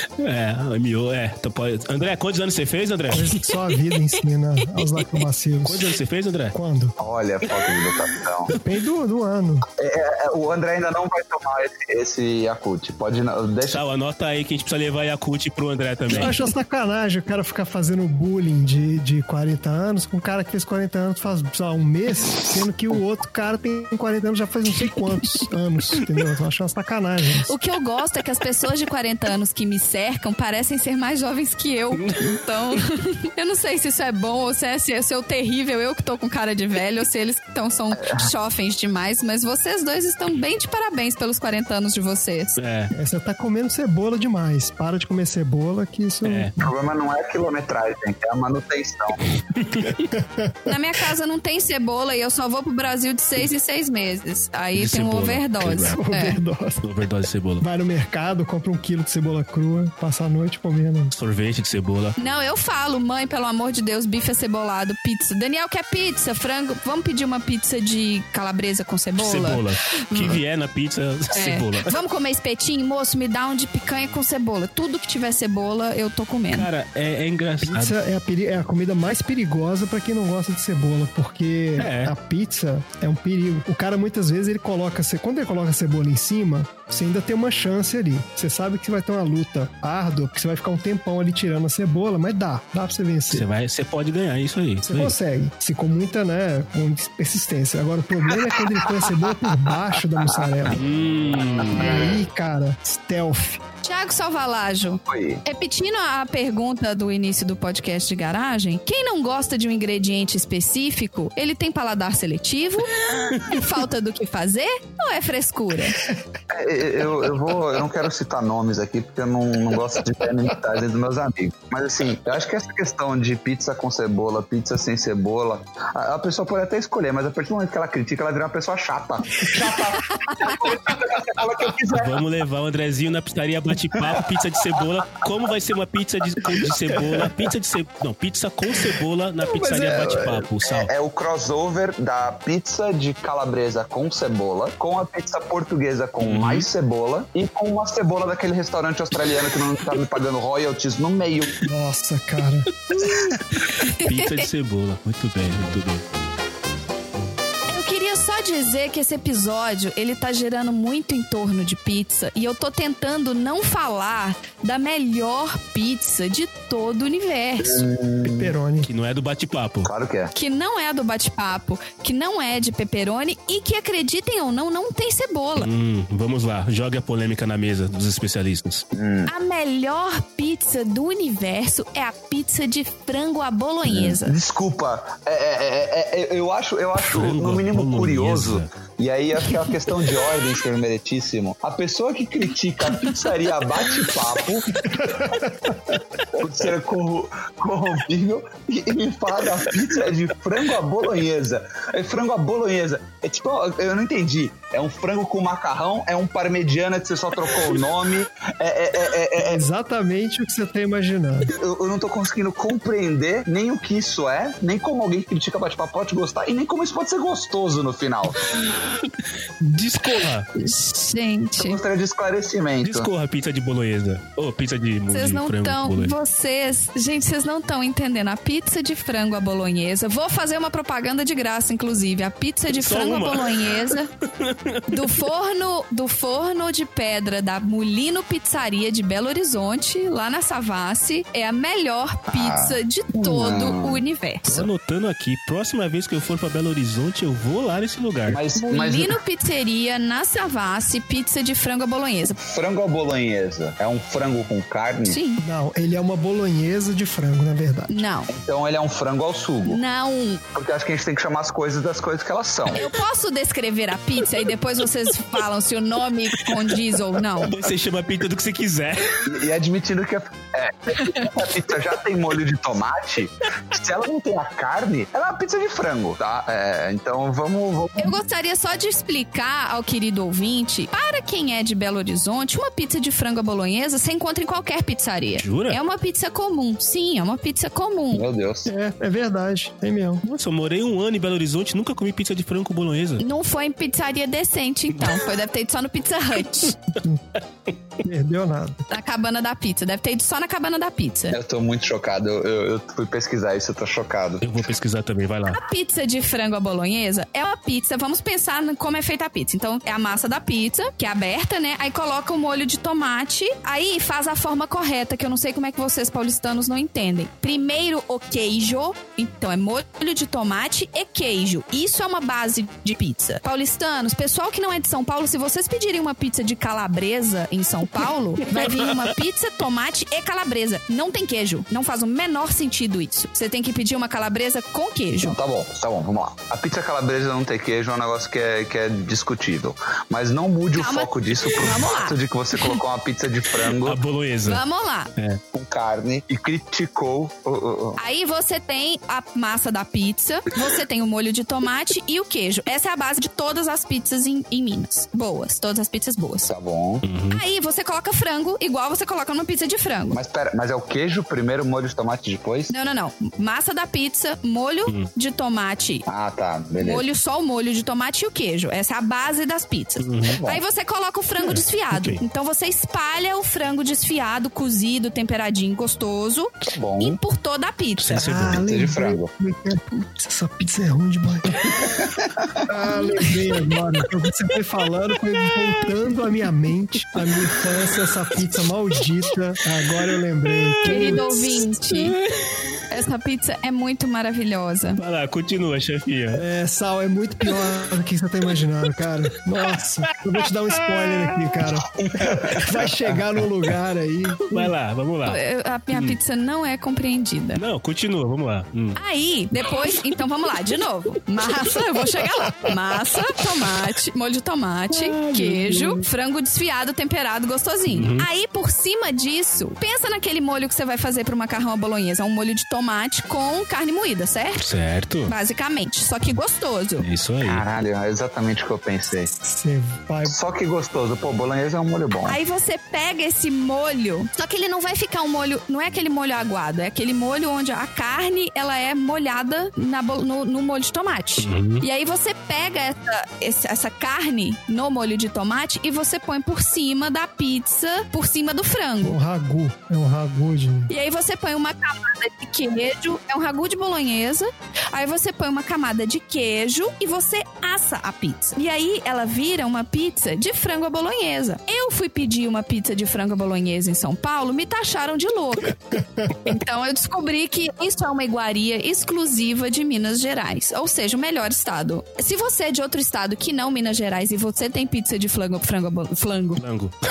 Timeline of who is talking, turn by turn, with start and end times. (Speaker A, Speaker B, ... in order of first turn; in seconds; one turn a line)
Speaker A: 0.2-3.3
Speaker B: 3.1-6.0
Speaker C: 4.7-5.2
Speaker A: 5.7-6.5
Speaker B: 6.5-7.0
Speaker D: 7.0-8.5
Speaker A: 7.5-8.6
Speaker B: 8.6-9.7
Speaker D: 9.8-13.8
Speaker A: 13.7-16.4
Speaker B: 16.1-27.5
Speaker C: 27.5-42.6
Speaker A: 31.9-32.8
Speaker D: 37.9-38.3
Speaker A: 42.6-42.9
Speaker B: 42.9-46.7
Speaker A: 46.2-46.5
Speaker D: 46.6-49.3
Speaker A: 49.6-50.0
Speaker B: 50.0-50.8
Speaker C: 50.7-56.4
Speaker A: 54.8-56.0
Speaker B: 55.9-56.9
Speaker A: 56.8-57.7
Speaker B: 57.6-61.1
Speaker A: 61.1-62.2
Speaker C: 62.2-70.4
Speaker A: 69.2-71.9
Speaker C: 71.3-76.7
Speaker A: 76.5-78.0
Speaker B: 77.6-93.5
Speaker A: 81.8-82.1
Speaker A: 93.3-95.2
Speaker B: 94.8-100.8
Speaker D: 98.4-99.3
Speaker D: 100.3-100.8
Speaker A: 100.7-102.1
Speaker D: 101.4-102.2
Speaker B: 101.7-103.6
Speaker C: 103.8-112.9
Speaker D: 105.1-105.4
Speaker A: 113.2-113.6
Speaker C: 113.4-116.0
Speaker D: 116.5-132.2
Speaker C: 130.2-130.6
Speaker A: 131.9-140.9
Speaker B: 137.0-137.3
Speaker B: 139.4-140.5
Speaker D: 140.6-151.6
Speaker A: 146.2-146.7
Speaker A: 149.2-150.0
Speaker B: 151.6-152.7
Speaker A: 152.9-156.0
Speaker C: 153.8-154.5
Speaker C: 157.7-167.9
Speaker D: 167.6-168.5
Speaker B: 168.2-168.9
Speaker A: 168.8-169.9
Speaker D: 169.8-170.3
Speaker C: 170.3-175.7
Speaker A: 175.6-178.8
Speaker D: 178.9-179.3
Speaker C: 179.3-184.4
Speaker D: 183.9-195.1
Speaker A: 187.0-188.7
Speaker B: 194.8-196.0
Speaker D: 196.4-209.6
Speaker B: 209.4-211.5
Speaker D: 211.5-218.4
Speaker A: 219.0-220.5
Speaker C: 220.6-221.8
Speaker D: 221.6-223.1
Speaker A: 222.8-226.2
Speaker C: 225.1-234.1
Speaker A: 232.7-235.1
Speaker C: 234.9-244.7
Speaker D: 242.3-244.0
Speaker A: 244.4-248.4
Speaker D: 248.3-249.2
Speaker C: 248.6-252.4
Speaker D: 252.4-255.2
Speaker C: 255.1-255.4
Speaker B: 255.4-258.0
Speaker C: 257.9-258.3
Speaker D: 258.3-259.8
Speaker C: 259.7-260.4
Speaker D: 260.5-262.8
Speaker C: 262.8-267.5
Speaker A: 267.4-269.1
Speaker D: 269.2-278.2
Speaker C: 271.0-271.3
Speaker C: 278.0-288.2
Speaker A: 285.4-285.8
Speaker D: 288.1-288.7
Speaker B: 288.7-290.2
Speaker A: 290.2-293.2
Speaker C: 293.2-296.8
Speaker A: 295.0-295.2
Speaker B: 298.0-298.9
Speaker C: 298.9-301.4
Speaker D: 301.3-304.5
Speaker A: 304.4-305.6
Speaker C: 305.5-335.4
Speaker A: 328.4-329.1
Speaker D: 335.2-344.0
Speaker C: 340.7-342.8
Speaker A: 343.7-344.6
Speaker C: 344.5-345.1
Speaker D: 345.5-348.0
Speaker C: 348.0-356.5
Speaker D: 356.5-357.1
Speaker A: 357.0-357.4
Speaker C: 357.3-360.2
Speaker D: 360.1-362.7
Speaker C: 362.7-366.1
Speaker D: 366.1-367.1
Speaker C: 366.8-378.3
Speaker A: 370.0-370.4
Speaker D: 370.3-370.6
Speaker A: 371.4-372.2
Speaker D: 376.7-377.2
Speaker A: 378.0-378.7
Speaker B: 378.1-381.6
Speaker D: 378.6-379.3
Speaker D: 381.7-382.6
Speaker B: 382.7-391.4
Speaker C: 382.9-383.3
Speaker A: 387.2-387.5
Speaker A: 390.5-392.7
Speaker C: 390.8-392.2
Speaker C: 392.9-395.0
Speaker A: 395.0-396.4
Speaker B: 396.4-404.7
Speaker A: 400.3-401.7
Speaker D: 401.9-403.2
Speaker A: 404.4-405.4
Speaker C: 405.3-407.6
Speaker A: 405.9-406.2
Speaker A: 407.6-409.0
Speaker C: 409.0-424.6
Speaker A: 414.9-416.1
Speaker A: 417.9-418.3
Speaker A: 424.6-425.3
Speaker C: 425.3-427.1
Speaker A: 427.0-427.6
Speaker D: 427.4-429.3
Speaker B: 429.4-430.4
Speaker D: 430.3-432.4
Speaker C: 432.1-449.2
Speaker A: 441.4-441.9
Speaker B: 449.0-450.9
Speaker C: 450.9-476.6
Speaker A: 476.6-477.0